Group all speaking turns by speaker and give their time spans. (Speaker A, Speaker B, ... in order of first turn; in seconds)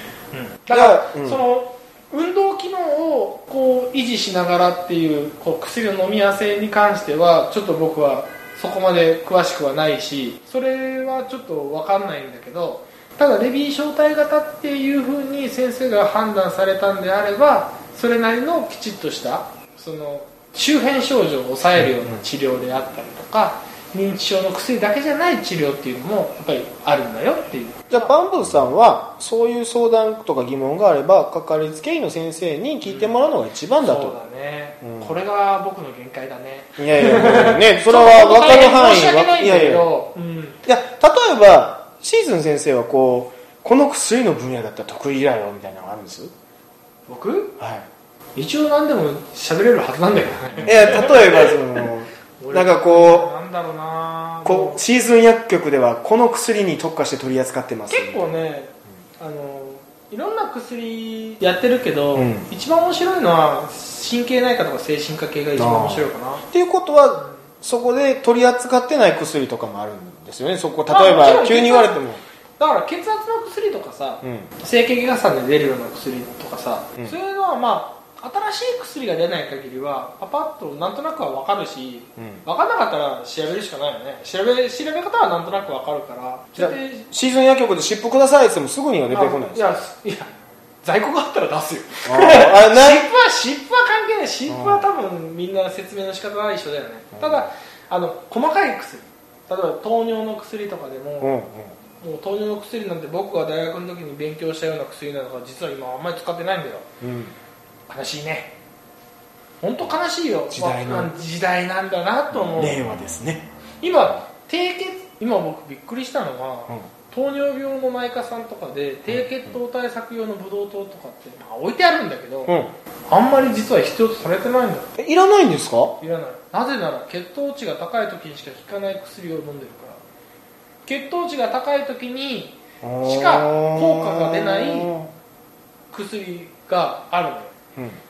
Speaker A: 0.3-28.1, 32.8-33.1, 33.8-40.6, 47.1-47.5, 48.4-51.9, 52.4-54.8, 57.9-66.4, 70.9-72.0, 72.6-87.1, 89.1-90.3, 90.8-101.3, 102.0-106.9, 107.9-108.5, 109.6-112.8, 113.8-122.6, 123.1-124.9, 126.0-130.0, 130.8-134.9, 135.9-137.5
Speaker B: 0.7-1.4, 21.8-22.2, 27.9-34.2, 34.8-35.2, 36.8-39.9, 40.7-46.3, 47.6-47.9, 50.6-53.3, 54.5-58.3, 62.1-62.5, 65.5-72.2, 74.2-74.5, 82.2-82.4, 86.6-89.8, 92.0-93.0, 94.5-94.9, 97.2-97.4, 101.2-101.7, 107.0-107.3, 110.5-111.1, 112.6-113.5, 122.5-122.7, 125.0-126.0, 132.8-135.1